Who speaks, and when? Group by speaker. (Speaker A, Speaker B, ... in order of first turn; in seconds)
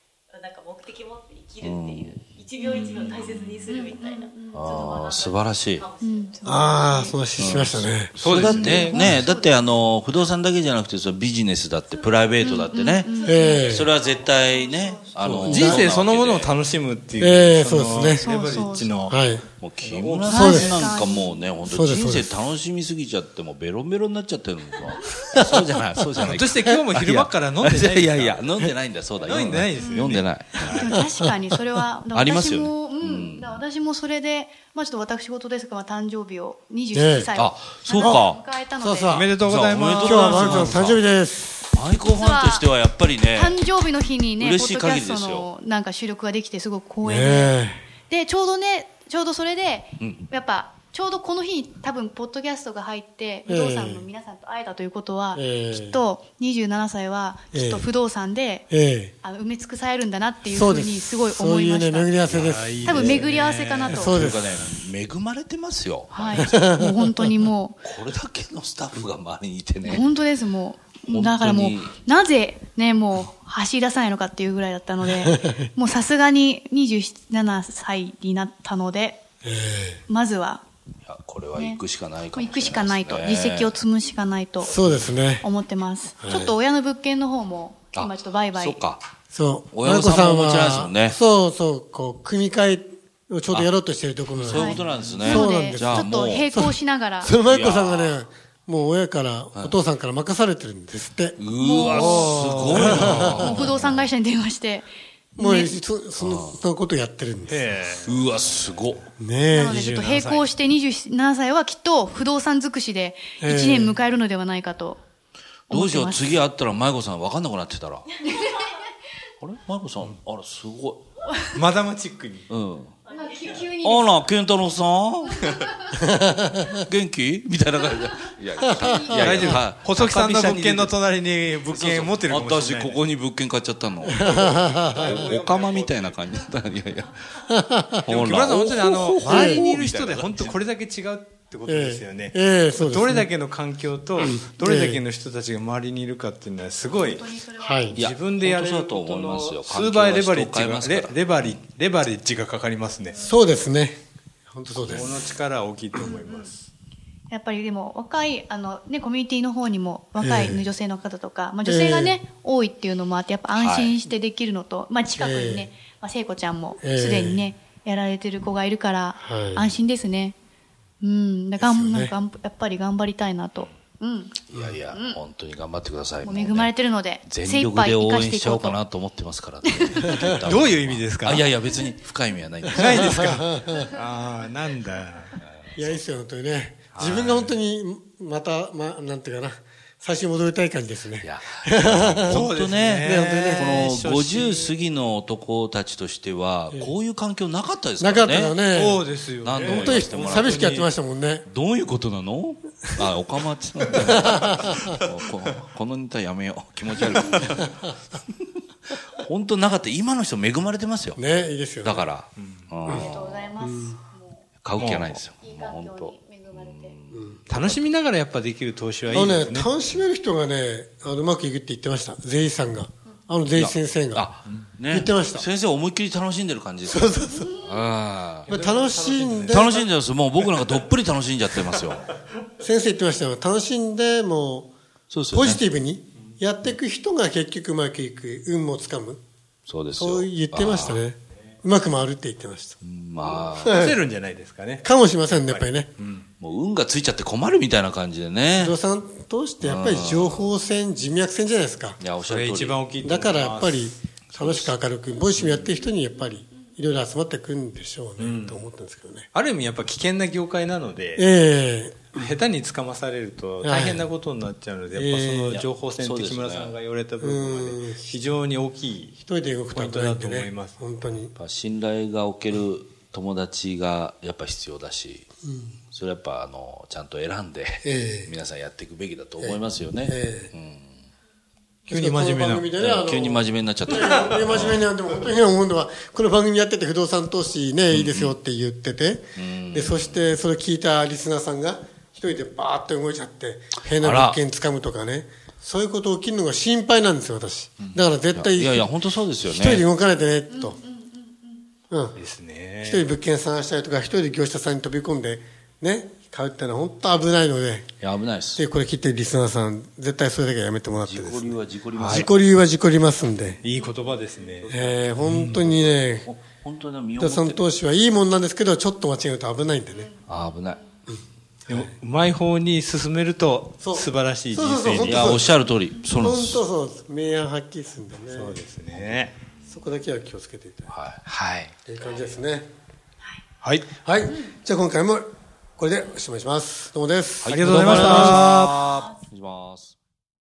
Speaker A: 0.3-6.6, 12.4-15.4, 118.3-118.6, 123.1-123.7
Speaker B: 1.6-2.2, 4.5-5.8, 7.4-13.1, 13.7-16.6, 19.6-30.9, 32.1-33.6, 37.4-38.4, 39.4-41.0, 41.7-43.6, 44.4-45.5, 50.0-50.3, 63.9-66.5, 67.8-70.1, 71.1-71.9, 81.1-83.8, 87.9-89.0, 89.7-91.2, 94.3-96.5, 97.5-98.2, 101.4-104.0, 106.2-106.6, 108.1-109.1, 115.7-118.1, 119.4-121.1, 122.5-123.0, 123.8-125.5, 126.7-130.9, 131.7-137.5, 138.1-140.6, 147.9-151.6, 163.6-163.9, 174.5-176.7, 177.2-183.2, 185.4-186.0, 191.2-198.7, 199.4-200.8, 201.5-208.0, 209.1-211.2, 211.8-213.6, 214.6-217.8, 223.6-228.5, 229.5-232.1, 235.1-235.6, 239.7-241.0, 242.8-243.9, 246.4-248.8, 249.6-250.5, 252.0-252.8, 255.4-255.7, 265.5-266.8, 271.4-275.3, 275.9-281.0, 282.8-284.9, 287.9-288.4, 289.4-290.3, 294.0-294.4, 297.8-299.9, 308.0-308.6, 311.1-312.3, 315.2-317.6, 320.3-320.8, 325.1-326.6, 330.9-331.2, 337.4-339.9
Speaker C: 2.6-3.5, 8.2-9.2, 15.3-19.2, 19.8-20.9, 26.2-28.4, 29.2-30.9, 39.1-40.9, 62.3-64.7, 102.1-103.8, 107.5-108.2, 109.6-110.5, 121.5-122.5, 129.1-133.0, 134.3-136.3, 138.1-147.3, 147.9-153.2, 154.8-156.7, 180.5-181.5, 182.7-185.4, 186.9-187.6, 192.3-194.8, 198.7-200.9, 212.4-212.7, 214.8-215.1, 217.5-219.7, 228.4-229.9, 230.4-230.8, 243.2-246.3, 252.2-254.7, 258.2-258.6, 259.3-261.2, 262.1-269.2, 269.7-270.8, 281.9-282.7, 302.2-303.1, 311.9-312.3, 313.6-315.2, 321.7-325.4, 328.3-329.3, 331.2-331.7, 333.6-333.9, 337.5-339.1
Speaker D: 3.7-4.6, 6.0-7.2, 8.4-9.5, 12.4-13.7, 18.2-19.2, 20.3-21.5, 29.8-39.3, 41.9-42.7, 43.3-47.6, 48.1-58.7, 59.2-64.2, 66.1-67.8, 69.8-79.2, 80.1-80.6, 81.5-81.8, 82.3-84.8, 85.4-88.8, 94.5-97.3, 101.6-102.5, 103.2-105.7, 109.5-115.0, 115.7-116.4, 123.1-124.3, 125.4-125.9, 146.9-148.0, 156.1-156.5, 157.3-170.3, 171.0-175.2, 176.2-178.8, 179.7-180.2, 212.9-217.0, 300.5-301.6
Speaker E: 6.5-8.1, 13.2-13.9, 15.4-15.6, 17.2-18.3, 19.1-19.4, 20.3-20.9, 21.7-22.4, 30.8-31.5, 36.9-37.3, 38.0-38.2, 38.8-39.3, 40.0-41.8, 47.0-47.8, 53.5-54.1, 55.4-56.0, 57.5-57.9, 58.7-59.1, 60.5-63.3, 63.9-64.6, 66.4-67.4, 75.0-75.7, 79.4-80.0, 84.6-85.5, 86.2-86.5, 89.3-103.5, 105.4-107.7, 109.2-109.7, 113.4-114.0, 126.0-126.8, 128.6-129.6, 134.0-135.2, 137.5-138.1, 138.6-139.8, 141.7-143.3, 144.2-145.0, 147.6-148.0, 153.2-155.3, 160.2-160.7, 161.7-162.2, 165.1-165.7, 166.8-167.5, 169.2-169.8, 171.6-172.2, 182.9-183.9, 185.8-192.5, 198.0-199.0, 199.6-201.5, 204.2-204.9, 211.2-212.0, 212.9-214.0, 217.1-217.4, 219.1-224.3, 224.9-225.5, 226.8-227.6, 228.5-229.8, 232.6-234.7, 235.3-239.2, 240.0-242.8, 243.6-244.0, 244.8-245.9, 248.6-252.0, 253.0-259.3, 261.2-262.3, 263.6-264.1, 264.9-265.6, 267.2-268.1, 269.2-271.3, 275.4-275.8, 277.8-278.3, 279.4-280.5, 281.9-298.9, 299.4-300.8, 301.9-302.2, 302.8-307.9, 308.6-313.6, 314.7-316.3, 317.2-320.1, 321.1-321.9, 323.8-325.5, 326.2-329.1, 329.7-330.9, 331.9-332.7, 334.0-335.2, 335.8-338.5